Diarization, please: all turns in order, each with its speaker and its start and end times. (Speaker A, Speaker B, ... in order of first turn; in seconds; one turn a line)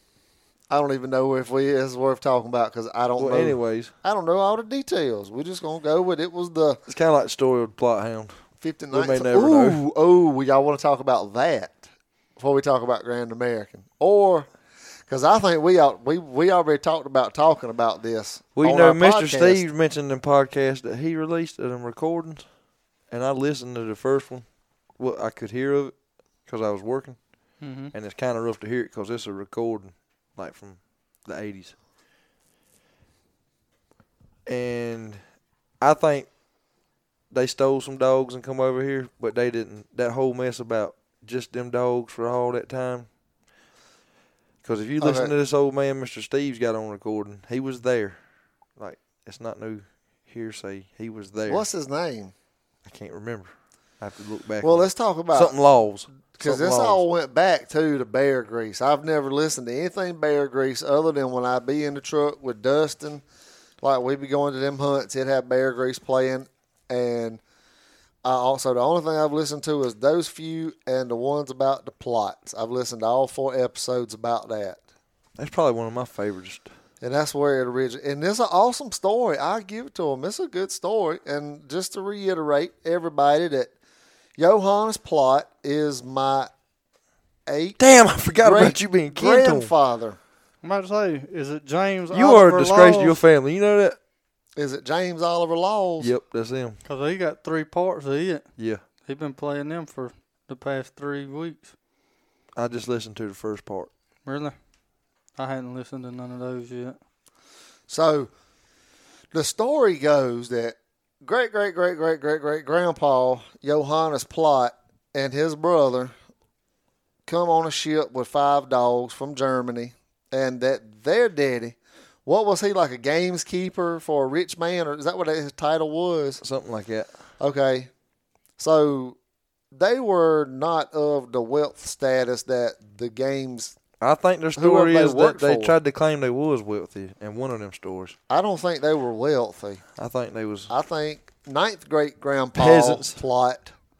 Speaker A: 0.7-6.8
Speaker B: 3.2-3.9
Speaker B: 6.9-9.8
Speaker A: 8.6-19.7
Speaker B: 18.6-31.8
Speaker C: 27.6-27.9
Speaker B: 34.5-43.2
Speaker B: 44.6-51.6
Speaker A: 45.0-45.3
Speaker A: 51.4-52.3
Speaker B: 52.8-57.0
Speaker A: 54.6-63.2
Speaker A: 63.8-67.4
Speaker A: 68.2-74.8
Speaker B: 75.4-76.7
Speaker A: 77.0-83.7
Speaker A: 84.4-86.5
Speaker A: 87.5-87.8
Speaker B: 87.8-89.7
Speaker A: 88.3-90.2
Speaker C: 90.6-93.2
Speaker B: 92.1-94.0
Speaker A: 94.5-96.1
Speaker B: 96.0-96.8
Speaker C: 96.8-101.7
Speaker B: 98.6-98.8
Speaker B: 102.5-103.9
Speaker C: 104.2-107.0
Speaker A: 107.9-108.3
Speaker A: 109.3-116.1
Speaker A: 117.3-126.4
Speaker B: 126.4-127.1
Speaker A: 127.4-127.9
Speaker A: 128.6-129.2
Speaker A: 129.7-133.8
Speaker B: 134.0-138.2
Speaker A: 134.6-135.8
Speaker A: 138.3-139.9
Speaker B: 140.0-140.7
Speaker A: 140.7-143.7
Speaker B: 142.6-143.2